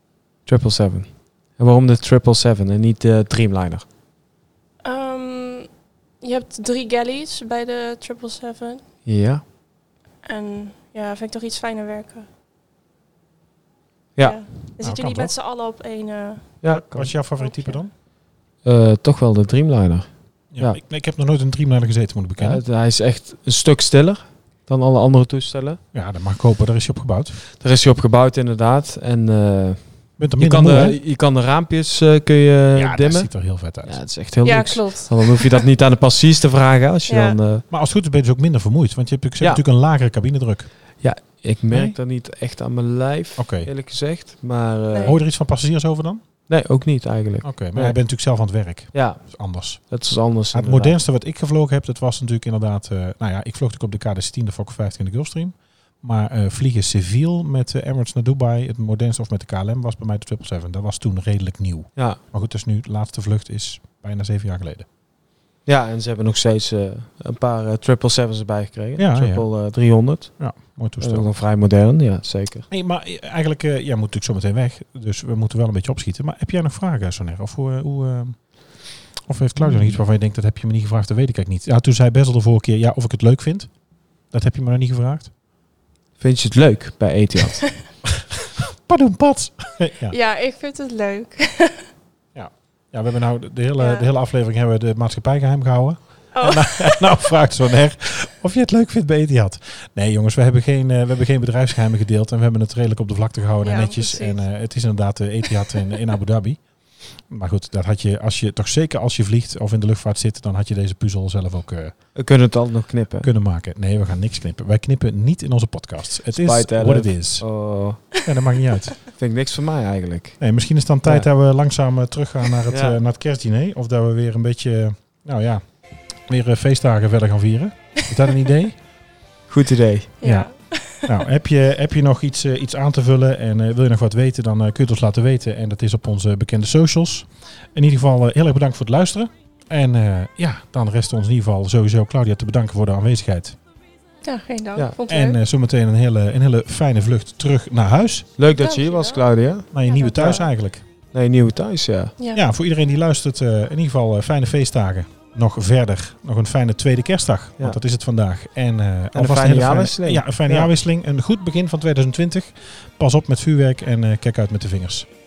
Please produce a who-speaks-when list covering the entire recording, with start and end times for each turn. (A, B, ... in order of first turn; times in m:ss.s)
0:00.4-0:03.8 A
0:04.8-0:05.7 B
0:06.2-0:08.8 B
0:09.0-0:09.4 A
0:10.2-0:12.3 B
0:14.2-0:16.6 B
0:14.8-0:15.3 C
0:16.6-0:17.1 A
0:16.7-0:17.9 C
0:17.4-0:17.8 B
0:18.6-0:20.8 A
0:20.5-0:22.6 C
0:22.4-0:25.8 A
0:25.9-0:27.4 C
0:27.5-0:37.6 A
0:30.2-0:31.0 C
0:32.7-0:34.0 C
0:34.4-0:35.6 B
0:37.1-0:37.4 B
0:37.7-0:41.0 C
0:41.0-0:45.2 A
0:41.7-0:42.0 C
0:43.4-0:43.7 C
0:45.0-0:46.2 C
0:46.5-0:48.0 A
0:47.4-1:04.8 C
0:48.9-0:51.0 A
1:05.6-1:12.7 A
1:09.0-1:09.8 C
1:10.4-1:11.3 C
1:12.7-1:23.7 C
1:19.6-1:20.0 A
1:24.3-1:25.3 C
1:26.2-1:27.7 A
1:28.1-1:30.2 C
1:30.1-1:31.9 B
1:32.3-1:52.0 C
1:33.8-1:34.1 B
1:36.3-1:37.2 B
1:43.6-1:44.6 B
1:52.1-1:53.3 A
1:53.2-1:59.0 C
1:56.3-1:58.1 A
1:59.1-2:00.4 A
2:00.4-2:08.8 C
2:02.7-2:03.0 A
2:09.5-2:10.2 A
2:10.2-2:11.1 B
2:10.2-2:23.6 C
2:24.2-2:25.4 B
2:25.1-2:28.3 C
2:28.4-2:30.5 A
2:28.5-2:29.3 B
2:29.7-2:30.8 C
2:29.8-2:30.4 B
2:31.1-2:32.2 A
2:32.3-2:45.1 C
2:39.1-2:40.7 A